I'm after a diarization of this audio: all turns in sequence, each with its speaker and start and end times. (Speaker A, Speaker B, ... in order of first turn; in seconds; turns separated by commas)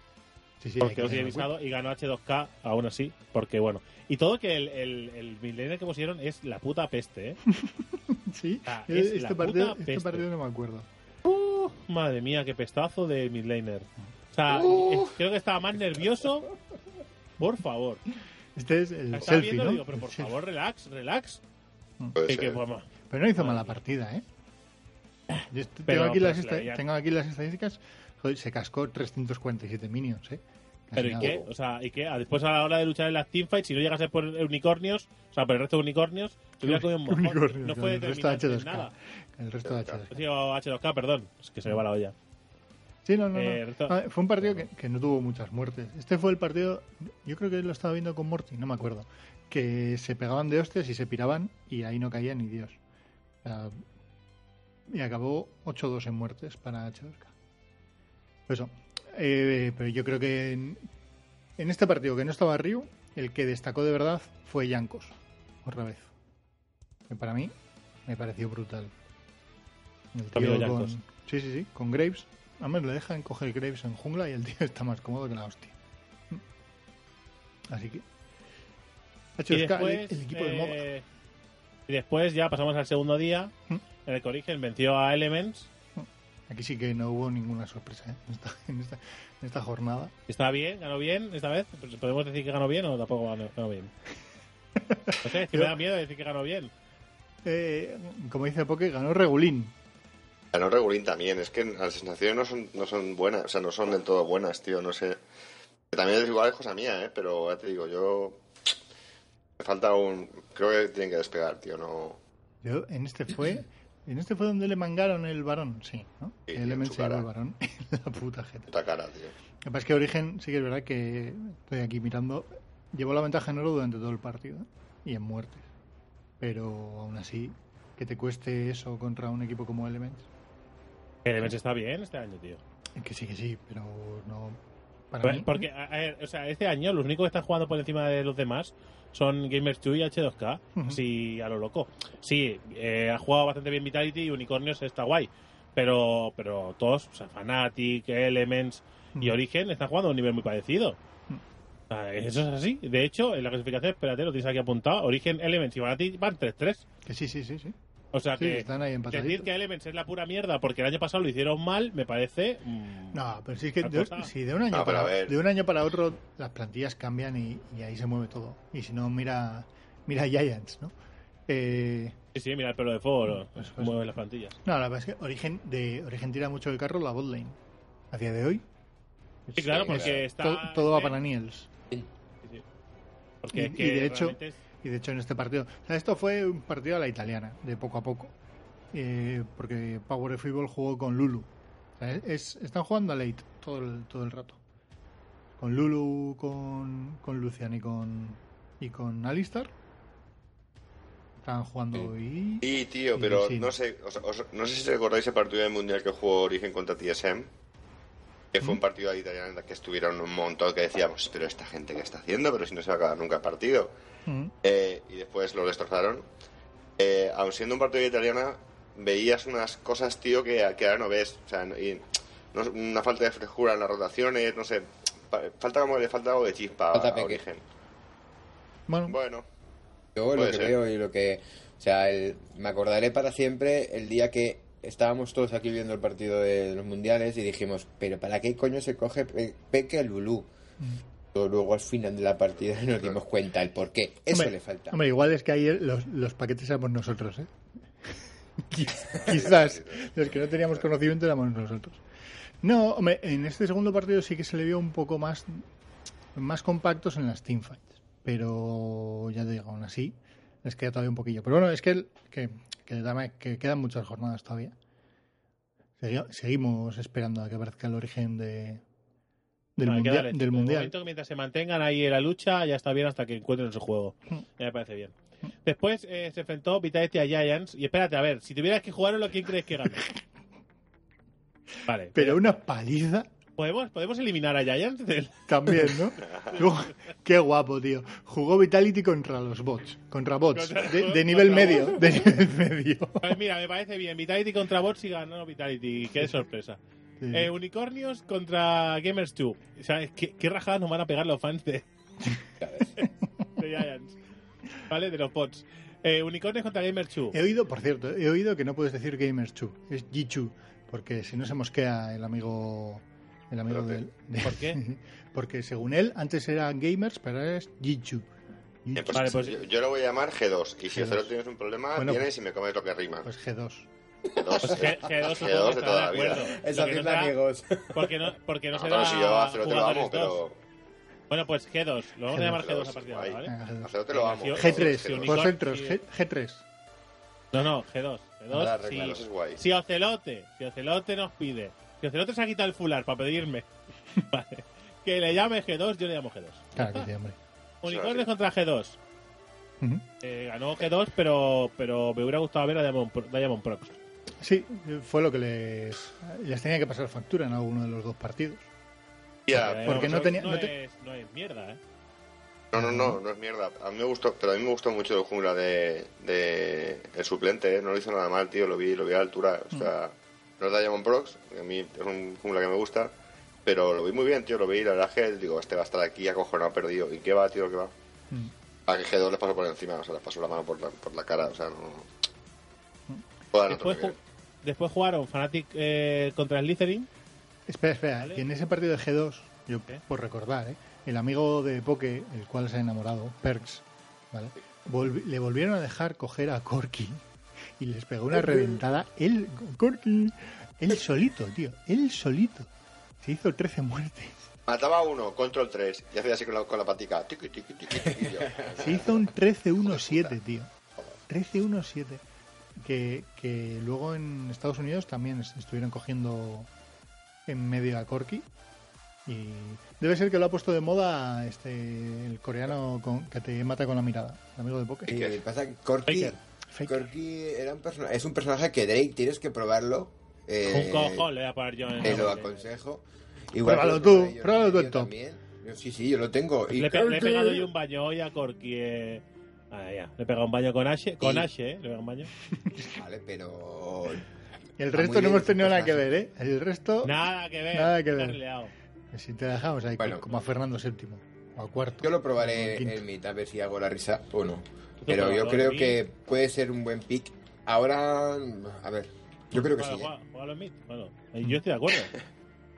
Speaker A: 0.6-1.5, Speaker B: 0.8-7.4, Speaker A: 7.5-10.9, Speaker B: 8.7-10.3, Speaker B: 11.2-16.5, Speaker C: 14.5-15.2, Speaker B: 17.4-18.0, Speaker A: 18.6-20.4, Speaker B: 19.1-21.4, Speaker C: 22.2-22.6, Speaker B: 22.3-23.8, Speaker A: 23.1-24.2, Speaker A: 25.5-31.4, Speaker B: 25.9-26.8, Speaker B: 31.0-38.9, Speaker A: 36.6-40.2, Speaker C: 39.6-40.0, Speaker B: 40.1-42.1, Speaker A: 43.0-52.8, Speaker B: 43.3-44.0, Speaker A: 53.4-53.8, Speaker A: 54.9-57.3, Speaker A: 58.5-60.8, Speaker A: 61.6-66.1, Speaker A: 67.1-67.5, Speaker A: 68.1-68.9, Speaker A: 70.1-75.8, Speaker B: 70.3-71.0, Speaker A: 77.7-78.0, Speaker A: 79.4-80.8, Speaker B: 79.5-81.0, Speaker B: 81.9-83.5, Speaker B: 84.1-85.7, Speaker A: 86.0-90.1, Speaker B: 90.3-93.9, Speaker A: 94.8-95.8, Speaker B: 95.2-96.7, Speaker A: 97.5-99.7, Speaker C: 100.5-105.2, Speaker C: 105.9-108.4, Speaker C: 109.6-112.2, Speaker A: 112.6-118.7, Speaker C: 116.5-117.3, Speaker C: 118.7-119.3, Speaker A: 119.6-125.7, Speaker A: 126.4-130.3, Speaker B: 131.2-132.6, Speaker A: 133.0-134.6, Speaker A: 135.1-135.7, Speaker B: 135.2-151.0, Speaker A: 140.8-141.0, Speaker B: 151.9-156.8, Speaker A: 157.1-157.8, Speaker B: 158.1-163.2, Speaker A: 158.4-159.5, Speaker A: 163.1-170.9, Speaker B: 163.8-164.3, Speaker C: 164.7-165.4, Speaker A: 171.5-172.2, Speaker B: 172.3-174.6, Speaker A: 173.5-174.0, Speaker A: 174.7-177.6, Speaker A: 178.1-178.7, Speaker A: 179.5-181.7, Speaker B: 179.6-181.3, Speaker D: 179.9-180.2, Speaker B: 183.4-184.6, Speaker A: 183.5-188.3, Speaker A: 188.9-191.5, Speaker A: 192.0-194.6, Speaker A: 195.6-199.7, Speaker A: 201.4-203.7, Speaker C: 202.6-207.5, Speaker C: 208.5-213.9, Speaker A: 214.3-214.5, Speaker C: 214.6-216.2, Speaker C: 217.0-227.6, Speaker D: 226.9-227.4, Speaker A: 228.9-229.2, Speaker C: 229.1-229.4, Speaker D: 230.2-240.5, Speaker C: 230.3-230.8, Speaker D: 241.3-245.0, Speaker A: 244.3-247.5, Speaker A: 248.7-252.0, Speaker C: 249.1-250.8, Speaker A: 252.6-255.6, Speaker A: 256.4-264.7, Speaker A: 266.0-268.8, Speaker A: 269.8-270.9, Speaker B: 269.8-280.1, Speaker B: 281.9-282.5, Speaker A: 282.1-283.3, Speaker B: 283.6-285.9, Speaker A: 285.5-293.4, Speaker C: 286.3-286.5, Speaker B: 290.5-292.3, Speaker B: 293.2-296.8, Speaker A: 297.2-297.5, Speaker B: 297.3-301.9, Speaker D: 302.6-302.9, Speaker B: 303.0-304.2, Speaker B: 304.9-307.4, Speaker A: 307.3-318.3, Speaker C: 313.7-314.0, Speaker B: 314.4-314.8, Speaker A: 318.9-319.4, Speaker C: 318.9-323.3, Speaker B: 319.1-319.6, Speaker A: 320.9-321.3, Speaker A: 322.0-322.3, Speaker A: 323.2-323.9, Speaker C: 324.4-326.5, Speaker D: 324.5-324.8, Speaker B: 324.7-327.3, Speaker D: 326.4-328.3, Speaker B: 327.9-330.4, Speaker C: 328.7-330.6, Speaker B: 331.3-333.5, Speaker A: 332.3-332.6, Speaker C: 332.6-335.5, Speaker A: 333.5-333.9, Speaker B: 334.1-336.0, Speaker A: 334.5-336.6, Speaker B: 337.5-343.7, Speaker D: 338.5-339.1, Speaker C: 338.6-339.6, Speaker B: 344.3-347.1, Speaker A: 346.8-347.4, Speaker B: 347.8-349.0, Speaker C: 347.9-348.3, Speaker B: 350.2-354.0, Speaker A: 354.4-358.7, Speaker C: 359.5-360.3, Speaker B: 359.5-361.8, Speaker A: 359.6-360.7, Speaker C: 362.7-373.1, Speaker A: 362.8-363.2, Speaker C: 373.6-377.9, Speaker C: 378.9-382.1, Speaker C: 383.5-384.2, Speaker B: 383.7-387.1, Speaker A: 387.7-397.2, Speaker A: 397.8-402.7, Speaker D: 398.3-398.8, Speaker A: 403.2-404.4, Speaker C: 404.7-409.3, Speaker D: 408.1-408.8, Speaker A: 408.8-410.7, Speaker C: 409.8-410.4, Speaker A: 411.3-412.2, Speaker A: 412.8-416.7, Speaker A: 417.5-418.5, Speaker A: 419.3-425.1, Speaker C: 425.1-425.4, Speaker D: 425.1-431.3, Speaker B: 426.1-426.4, Speaker A: 426.7-427.0, Speaker B: 430.6-432.6, Speaker D: 431.9-437.7, Speaker A: 433.6-435.1, Speaker B: 436.7-442.3, Speaker D: 441.2-441.5, Speaker D: 442.9-444.2, Speaker A: 444.8-448.4, Speaker D: 444.9-446.1, Speaker B: 447.0-448.7, Speaker A: 449.1-453.0, Speaker D: 450.0-450.3, Speaker D: 452.0-460.1, Speaker B: 455.0-456.0, Speaker B: 459.6-462.1